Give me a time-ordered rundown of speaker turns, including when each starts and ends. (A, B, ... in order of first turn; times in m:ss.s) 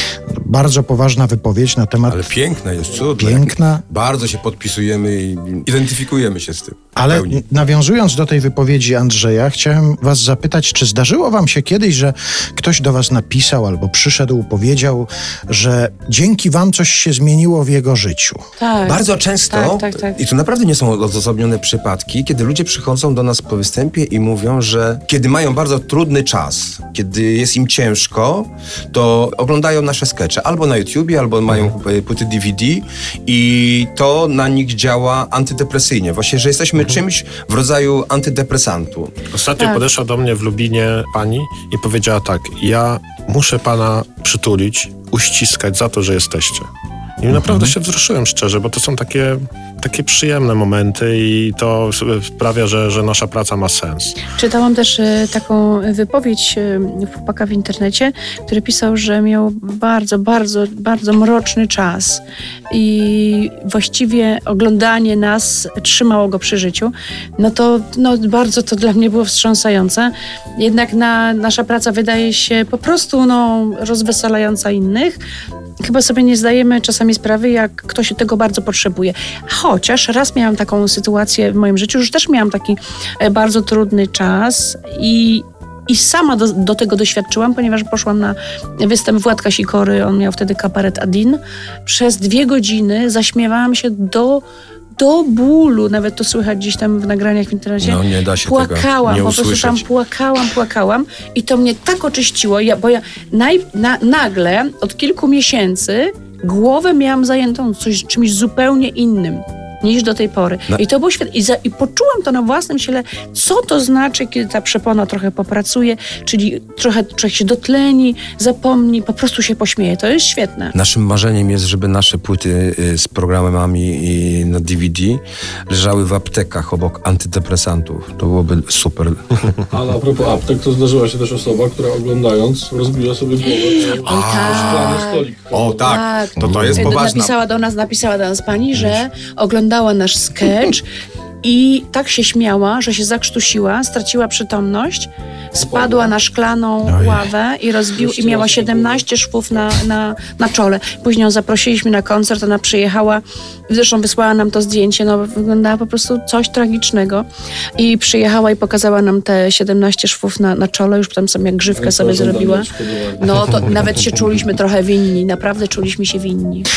0:00.3-0:02.3 A
0:02.1-0:07.4 B
0:03.1-0:03.8 A
0:07.0-0:18.4 A
0:18.6-0:20.2 C
0:18.8-0:39.2 B
0:39.3-0:46.7 D
0:39.6-0:39.9 C
0:47.2-0:54.2 D
0:54.4-1:15.2 C
1:15.8-1:34.4 C
1:35.0-2:00.8 C
1:37.8-1:39.8 B
2:00.8-2:09.6 B
2:09.7-2:16.0 E
2:13.6-2:15.3 C
2:13.9-2:14.9 B
2:15.5-2:17.4 B
2:15.8-2:20.9 C
2:16.5-2:16.9 A
2:21.4-2:37.3 C
2:25.6-2:26.2 E
2:26.8-2:27.2 A
2:28.0-2:29.0 E
2:37.8-2:46.7 C
2:41.7-2:43.6 E